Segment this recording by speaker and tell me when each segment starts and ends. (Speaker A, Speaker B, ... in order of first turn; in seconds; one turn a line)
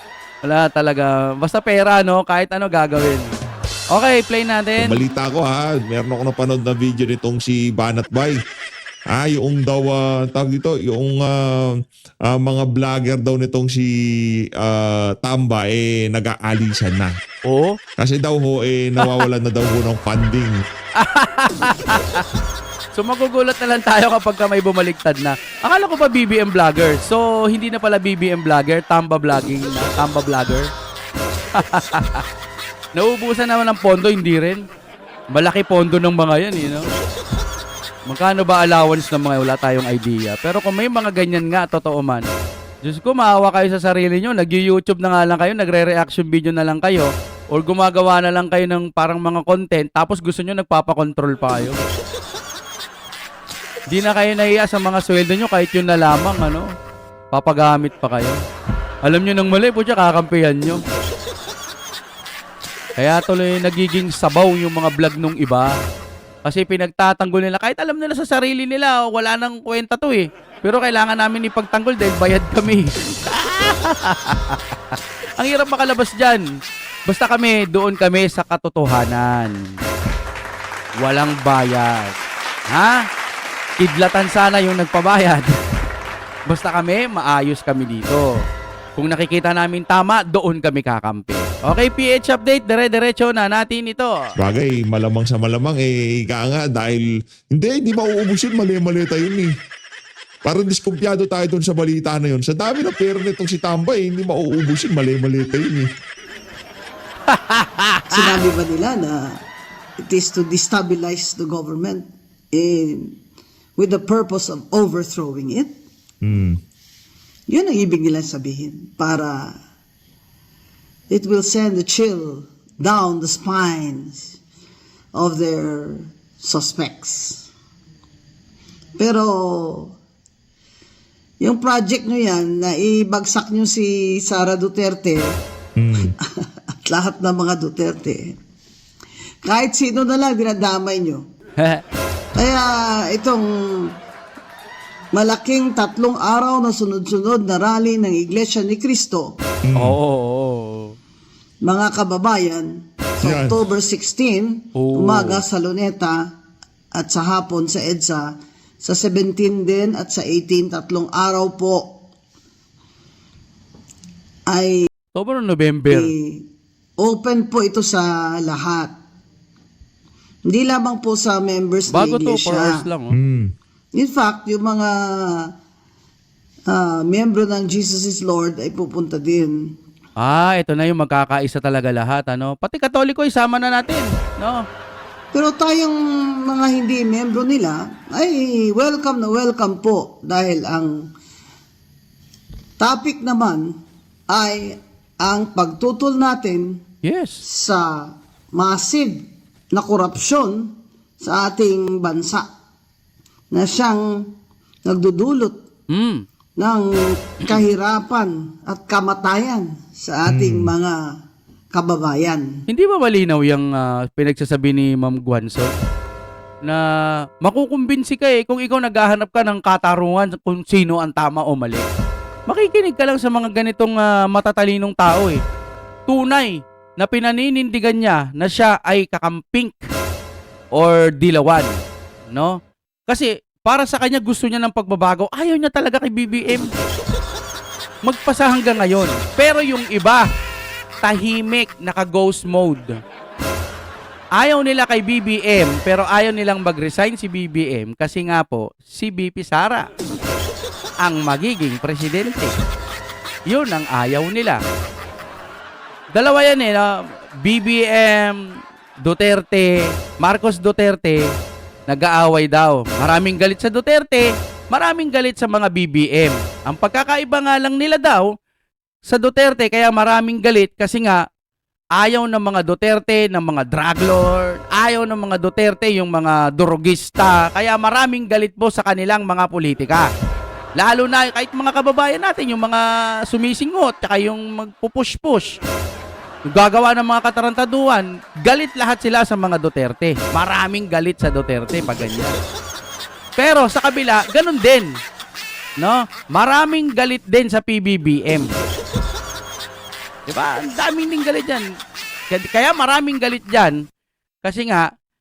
Speaker A: 0.4-3.3
Speaker A: 3.9-5.0
Speaker B: 4.8-8.4
Speaker B: 9.1-13.9
Speaker B: 14.6-17.2
Speaker A: 17.4-17.8
Speaker B: 18.0-20.6
Speaker A: 21.0-22.2
Speaker A: 22.9-30.7
Speaker A: 31.5-32.2
Speaker A: 33.0-34.6
Speaker A: 35.3-36.9
Speaker A: 38.1-42.2
Speaker A: 42.8-51.8
Speaker A: 53.9-56.7
Speaker A: 57.3-58.4
Speaker A: 59.0-60.8
Speaker A: 63.0-65.7
Speaker A: 66.4-76.4
Speaker A: 77.1-79.5
Speaker A: 81.0-82.1
Speaker A: 82.7-83.0
Speaker A: 83.8-85.5
Speaker A: 86.5-88.3
Speaker A: 89.0-94.1
Speaker B: 94.4-99.5
Speaker B: 100.4-105.9
Speaker A: 107.3-108.3
Speaker C: 108.1-109.3
Speaker C: 110.0-113.2
Speaker C: 113.8-115.7
Speaker B: 116.2-116.6
Speaker C: 117.5-119.5
Speaker C: 121.1-124.4
Speaker C: 125.1-127.5
Speaker C: 129.0-129.9
Speaker C: 131.4-135.3
Speaker B: 135.8-136.1
Speaker C: 136.0-138.3
Speaker C: 139.4-141.2
Speaker C: 142.3-143.9
Speaker C: 145.1-149.3
Speaker B: 149.7-150.0
Speaker A: 149.8-150.9
Speaker C: 151.6-156.2
Speaker B: 153.2-153.6
Speaker A: 154.7-155.4
Speaker C: 156.9-161.9
Speaker C: 164.5-164.9
Speaker A: 165.1-166.1
Speaker C: 165.9-166.4
Speaker C: 167.0-168.9
Speaker C: 170.5-172.8
Speaker A: 171.9-173.1
Speaker B: 173.1-173.5
Speaker C: 173.9-175.5
Speaker C: 176.7-179.6
Speaker A: 180.2-184.6
Speaker C: 185.3-191.1
Speaker C: 192.8-193.7
Speaker C: 194.3-196.8
Speaker A: 197.0-197.4
Speaker C: 197.4-199.2
Speaker C: 199.7-200.7
Speaker C: 201.2-202.4
Speaker C: 203.5-204.0
Speaker C: 204.8-205.6
Speaker A: 205.9-206.2
Speaker C: 206.6-211.1
Speaker B: 210.3-210.7
Speaker C: 211.7-212.5
Speaker A: 212.7-215.7
Speaker A: 217.4-221.9
Speaker A: 222.5-225.4
Speaker A: 226.1-229.8
Speaker A: 230.7-231.8
Speaker A: 232.3-236.7
Speaker A: 238.0-240.3
Speaker A: 241.0-242.9
Speaker A: 244.4-249.8
Speaker A: 251.0-252.5
Speaker A: 253.5-254.6
Speaker A: 256.1-256.9
Speaker A: 257.4-258.4
Speaker A: 259.0-261.3
Speaker A: 261.9-268.3
Speaker A: 269.1-271.2
Speaker A: 272.0-280.1
Speaker A: 280.8-285.6
Speaker A: 286.5-292.3
Speaker A: 293.4-294.9
Speaker A: 295.8-298.5
Speaker A: 300.3-301.6
Speaker A: 302.3-303.8
Speaker A: 304.4-304.9